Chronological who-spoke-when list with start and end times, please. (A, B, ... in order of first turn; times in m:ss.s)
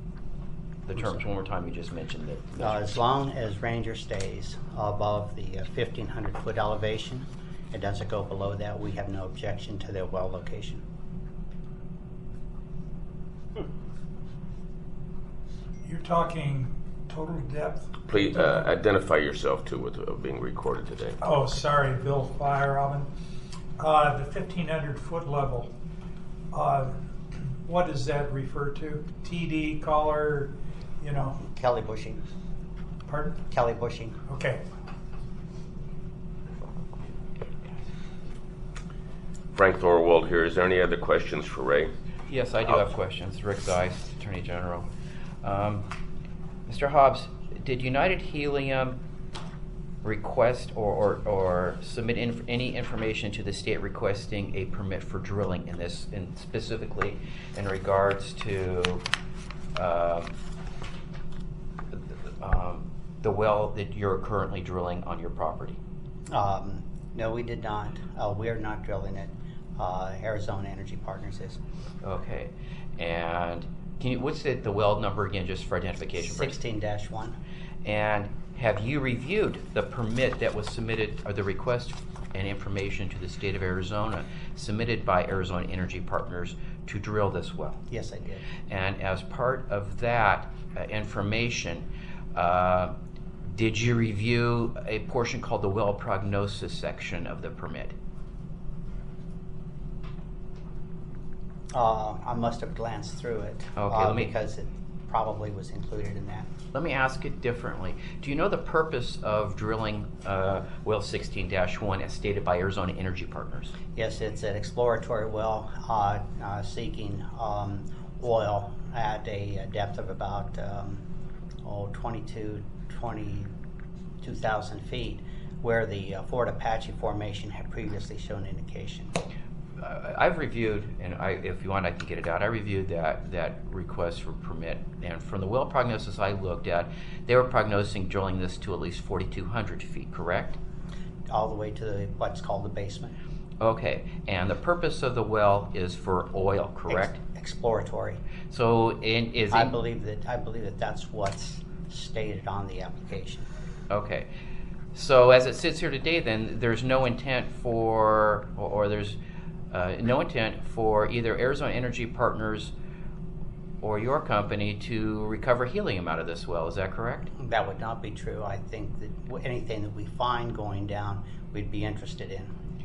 0:00.9-0:03.0 A
0:02.6-0:10.8 B
0:15.8-0:17.9 C
0:18.1-0:21.2 D
0:21.2-0:23.1 C
0:23.8-0:25.7 C
0:26.5-0:26.9 C
0:27.6-0:31.4 C
0:31.4-0:32.2 B
0:33.1-0:33.4 C
0:33.5-0:34.2 B
0:34.3-0:34.6 C
0:39.5-0:41.9 D
0:42.3-0:44.9 A
0:45.4-0:45.8 A
0:46.7-0:49.0 A
0:50.0-0:59.0 A
0:59.7-1:00.3 A
1:01.9-1:05.8 A
1:06.3-1:11.6 B
1:12.0-1:16.6 A
1:16.2-1:17.4 B
1:17.8-1:27.8 A
1:27.9-1:28.4 B
1:28.7-1:37.9 A
1:41.7-1:46.5 B
1:43.8-1:44.3 A
1:46.7-1:53.7 A
1:53.9-2:01.0 B
2:01.6-2:03.5 B
2:04.2-2:09.1 B
2:09.8-2:20.6 A
2:21.3-2:23.1 B
2:23.6-2:27.2 A
2:26.9-2:28.2 B
2:28.5-2:29.7 A
2:29.5-2:33.5 B
2:33.9-2:34.3 A
2:34.9-2:39.2 A
2:39.7-2:42.7 A
2:43.8-2:47.3 A
2:47.4-2:52.5 B